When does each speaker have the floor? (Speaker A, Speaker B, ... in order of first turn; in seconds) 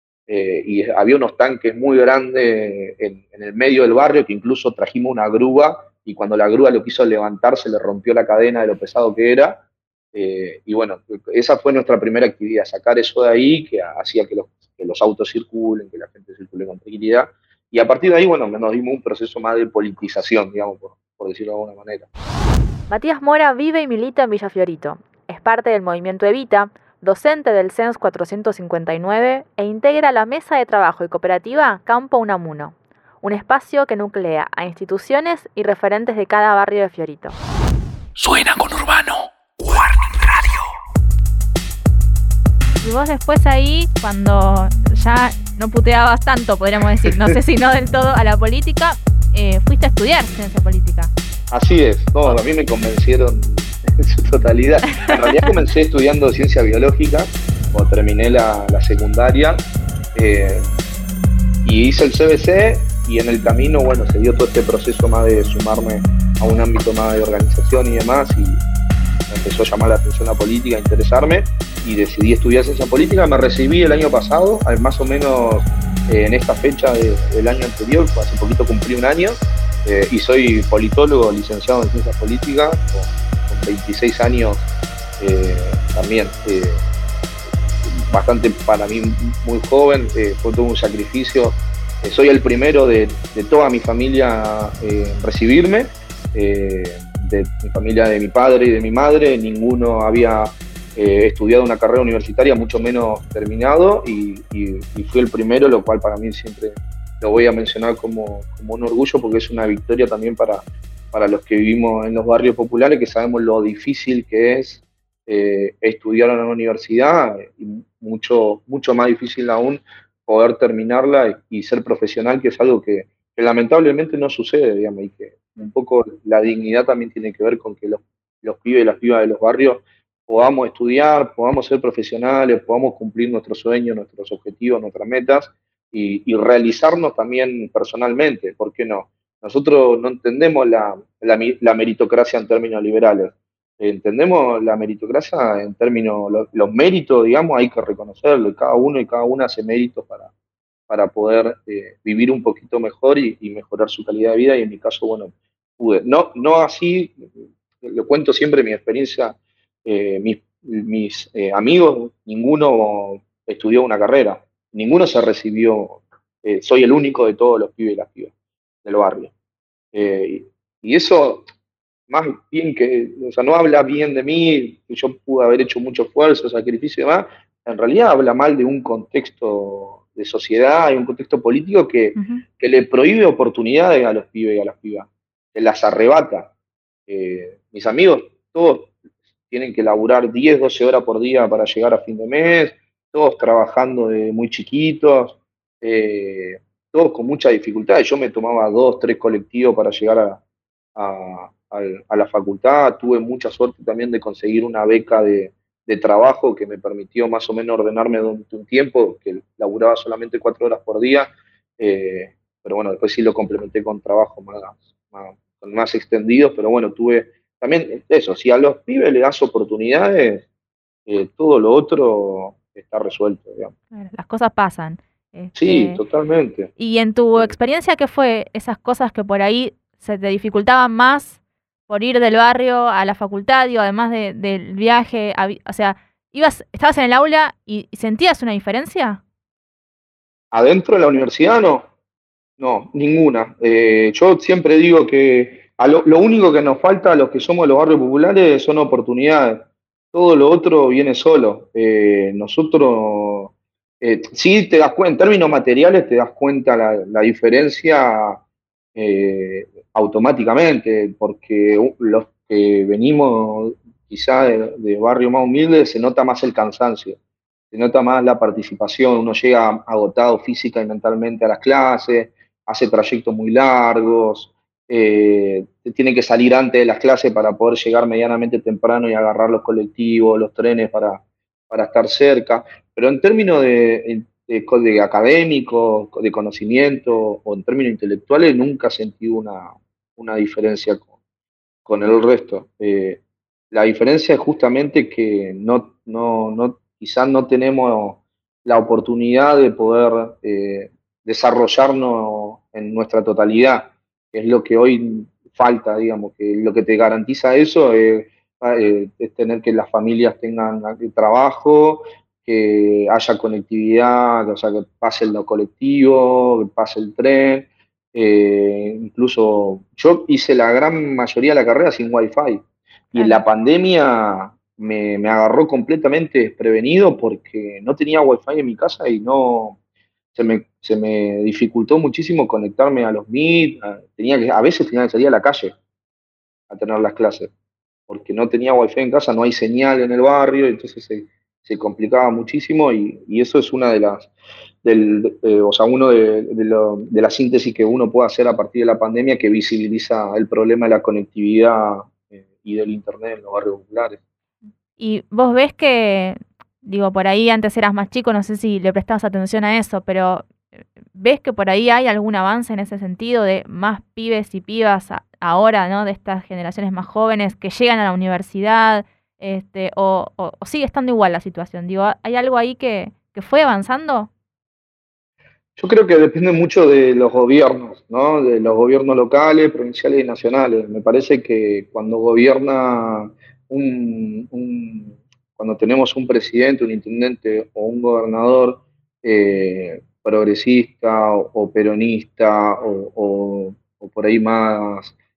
Speaker A: 0.3-9.6, 10.1-22.1, 51.5-60.8, 61.6-68.6, 69.3-84.7, 85.2-86.8, 87.8-150.3, 150.9-157.3, 157.8-168.3, 168.8-169.3, 169.9-171.5, 172.1-186.5, 187.1-188.9, 189.5-200.4, 200.9-220.4, 221.1-223.7, 225.6-226.7, 240.5-241.9, 242.6-258.4, 258.9-267.2, 267.7-291.1, 291.9-293.2, 293.7-322.6, 323.1-329.8, 330.3-335.7, 336.7-337.5, 338.1-344.3, 344.8-354.2, 375.8-395.1
Speaker B: 22.9-37.4, 42.8-51.1, 182.2-182.4, 223.9-226.0, 226.8-231.4, 231.9-239.2, 323.1-323.4, 355.0-360.5, 361.1-374.3
Speaker C: 38.1-40.7